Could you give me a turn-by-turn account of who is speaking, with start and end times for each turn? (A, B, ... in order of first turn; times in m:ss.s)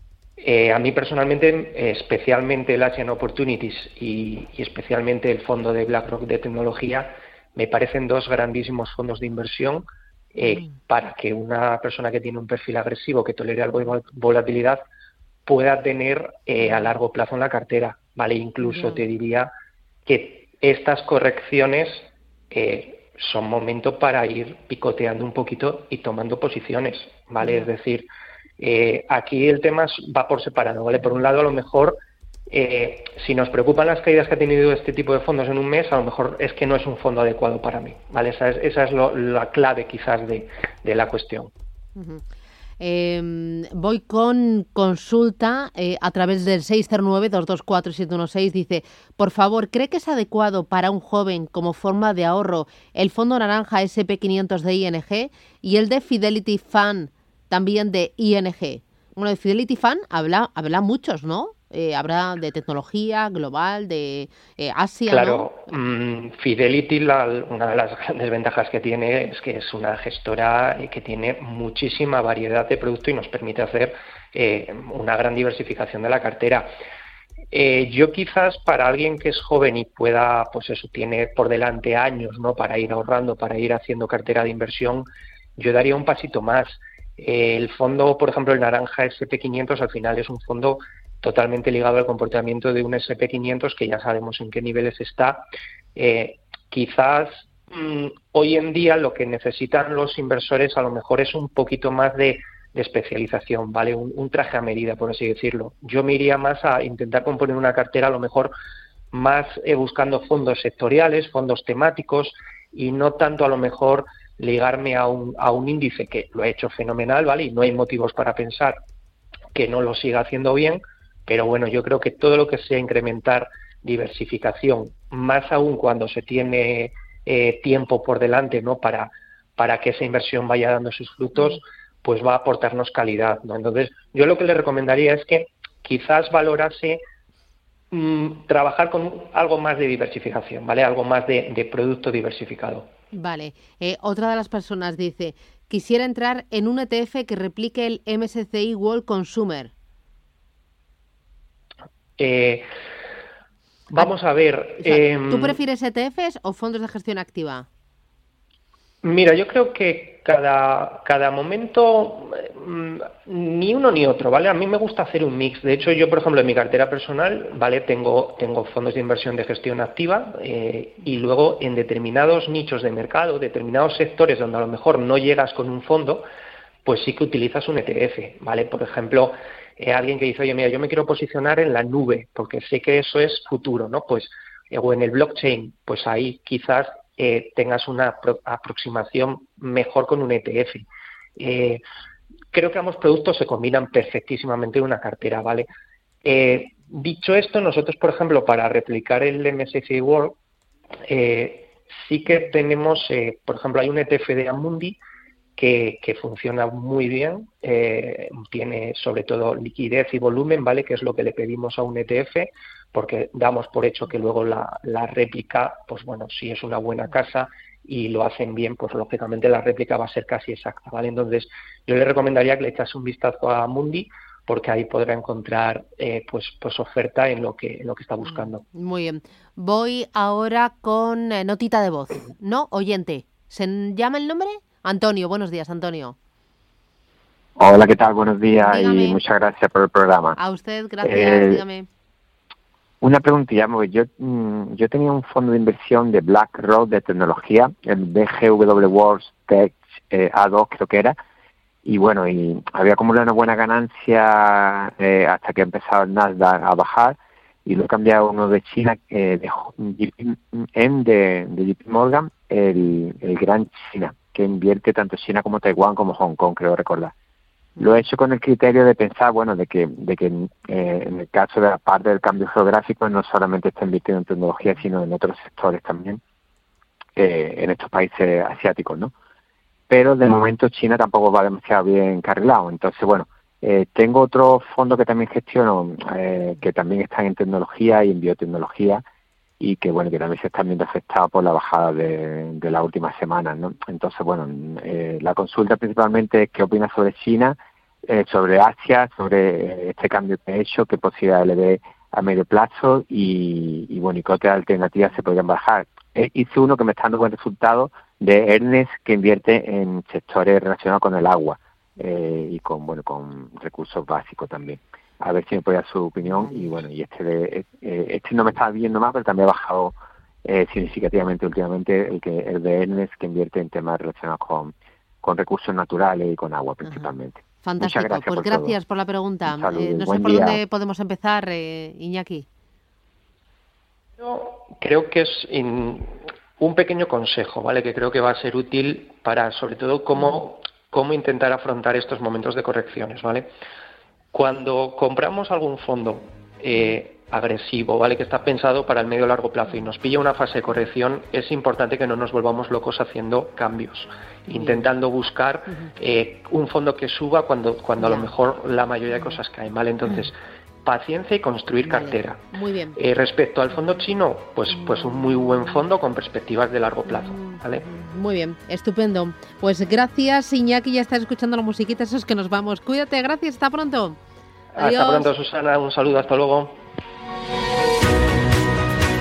0:00.4-0:14.8 A
0:15.5-0:19.5 A
0:20.0-0:28.1 A
0:28.6-0:32.0 A
0:32.5-0:41.5 A
0:42.0-0:42.2 B
0:42.8-1:05.5 B
1:05.1-1:16.7 A
1:17.5-1:48.5 A
1:49.1-1:58.8 A
1:59.5-2:17.0 A
2:17.9-2:22.9 A
2:23.1-2:29.7 B
2:32.2-2:32.7 A
2:33.9-2:35.6 A
2:34.8-2:37.7 B
2:39.0-2:56.2 A
2:56.8-3:10.9 A
3:11.4-3:11.8 A
3:12.5-3:15.7 A
3:16.2-3:20.4 A
3:21.1-3:25.0 A
3:25.6-3:48.6 A
3:48.2-3:56.2 B
3:57.6-4:00.4 C
3:58.6-3:59.2 B
4:00.4-4:01.9 B
4:01.0-4:01.6 C
4:03.0-4:11.2 C
4:11.8-4:27.1 C
4:27.8-4:36.2 C
4:37.2-4:39.1 C
4:39.9-4:49.0 C
4:49.6-5:28.8 C
5:26.8-5:27.1 B
5:27.6-5:32.5 B
5:29.4-5:30.6 C
5:34.2-5:43.5 A
5:44.3-6:02.4 A
5:54.5-5:54.9 B
5:58.0-5:58.3 B
6:01.8-6:03.0 B
6:03.0-6:07.8 A
6:04.8-6:05.5 B
6:07.1-6:14.2 B
6:14.8-6:16.8 A
6:14.8-6:15.3 B